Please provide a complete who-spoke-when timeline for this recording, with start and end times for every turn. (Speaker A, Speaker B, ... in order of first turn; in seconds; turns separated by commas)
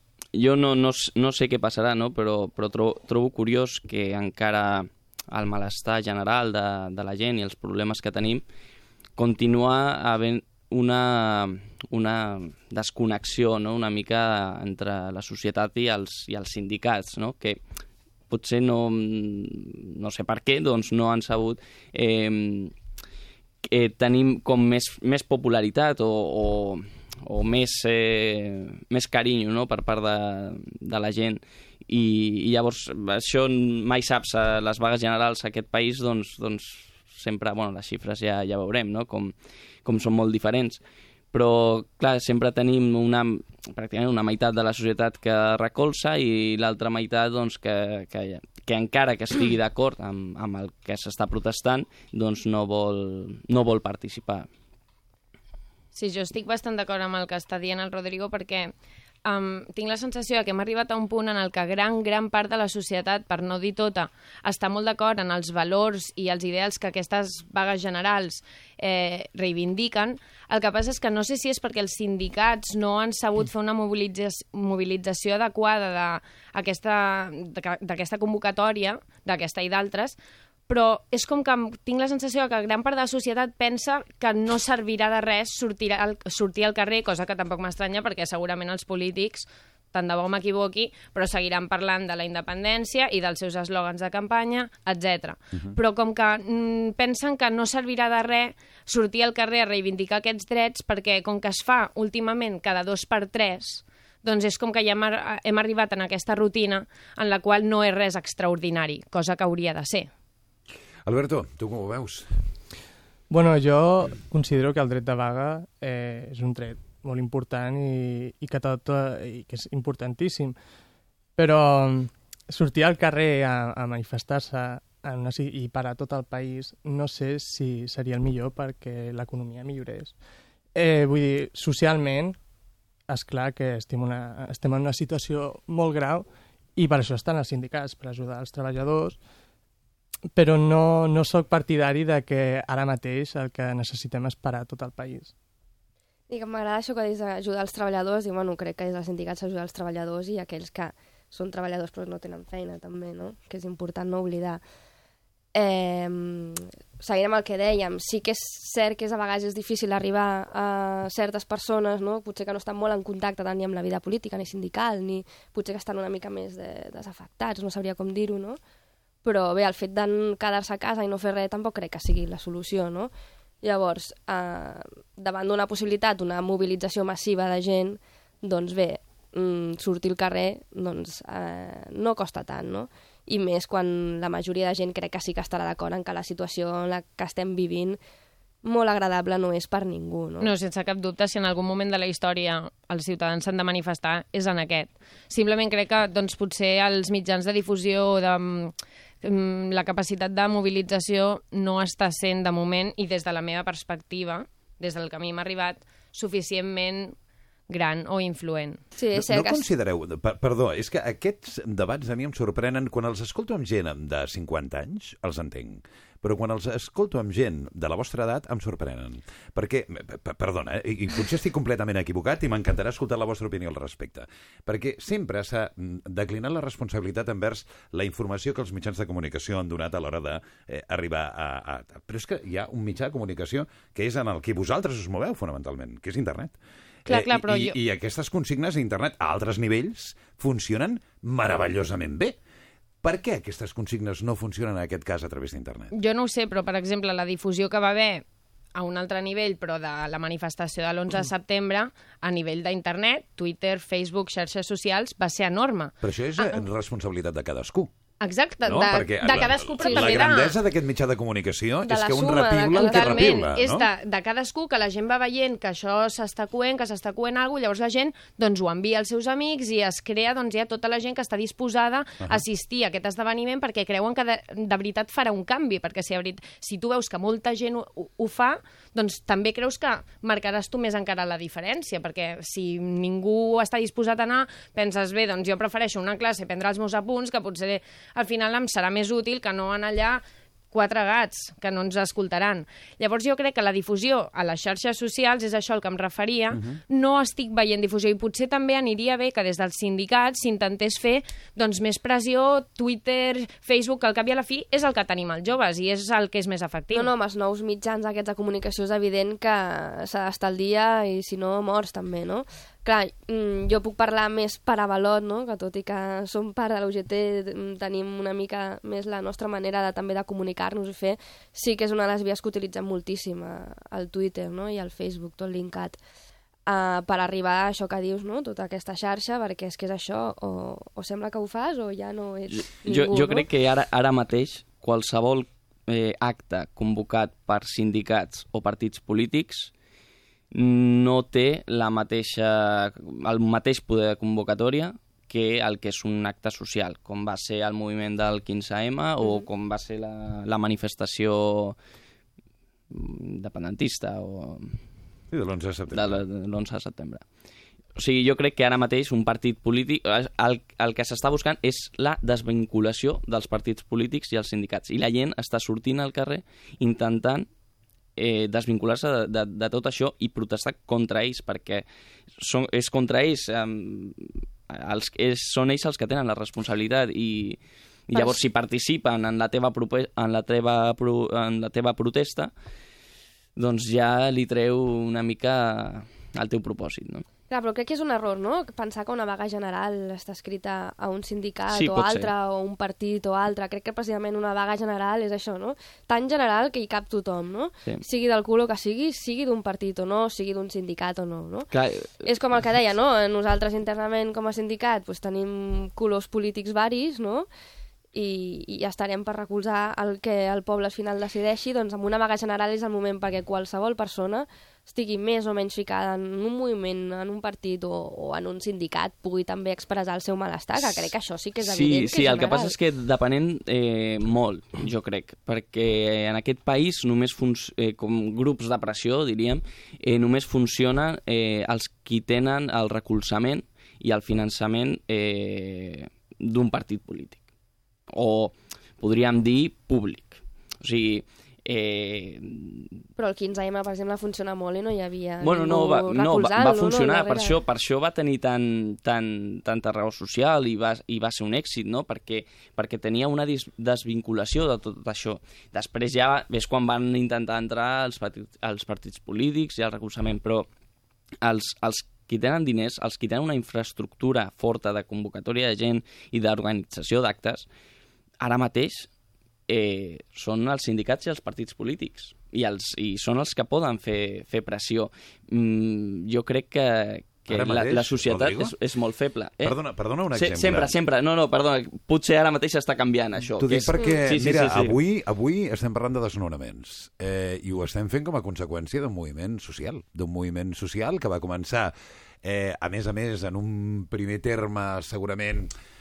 Speaker A: 0.3-8.4, Speaker A: 9.2-17.6, Speaker A: 18.3-22.7, Speaker A: 23.6-40.8, Speaker A: 41.3-54.5, Speaker B: 55.9-58.7, Speaker B: 59.2-80.2, Speaker B: 80.7-110.1, Speaker C: 111.0-112.4, Speaker D: 113.3-120.5, Speaker D: 121.4-130.2, Speaker D: 130.7-132.4, Speaker D: 133.1-139.2, Speaker D: 140.3-145.3, Speaker E: 146.3-154.6, Speaker E: 155.5-168.6, Speaker E: 169.2-173.1, Speaker E: 173.6-188.0, Speaker E: 188.6-190.5, Speaker B: 190.4-207.2, Speaker B: 207.7-208.8, Speaker E: 208.9-209.6, Speaker C: 209.1-242.3, Speaker B: 237.1-237.8, Speaker C: 243.0-245.9, Speaker B: 245.9-248.2, Speaker B: 248.7-256.6, Speaker C: 256.0-257.9, Speaker B: 258.2-260.6, Speaker C: 258.6-263.8, Speaker E: 259.8-260.2, Speaker E: 261.8-263.4, Speaker B: 262.7-307.1, Speaker C: 296.5-296.8, Speaker E: 306.9-326.0, Speaker E: 326.7-333.4, Speaker A: 332.5-339.7, Speaker A: 340.5-351.8, Speaker A: 352.9-354.8, Speaker C: 355.3-356.2, Speaker A: 355.9-357.2, Speaker A: 357.9-367.5, Speaker A: 368.2-371.9, Speaker A: 372.4-382.5, Speaker A: 383.6-387.2, Speaker E: 387.5-401.7, Speaker A: 391.7-392.3, Speaker A: 401.7-402.3, Speaker E: 402.2-407.5, Speaker E: 408.1-422.7, Speaker A: 420.8-421.1, Speaker A: 421.6-437.4, Speaker A: 438.1-443.0, Speaker E: 443.2-447.6, Speaker A: 445.4-460.7, Speaker A: 461.4-467.6, Speaker A: 468.4-469.1, Speaker A: 469.7-479.8, Speaker C: 477.5-478.7, Speaker C: 479.6-480.9, Speaker A: 480.3-485.0, Speaker C: 483.6-495.7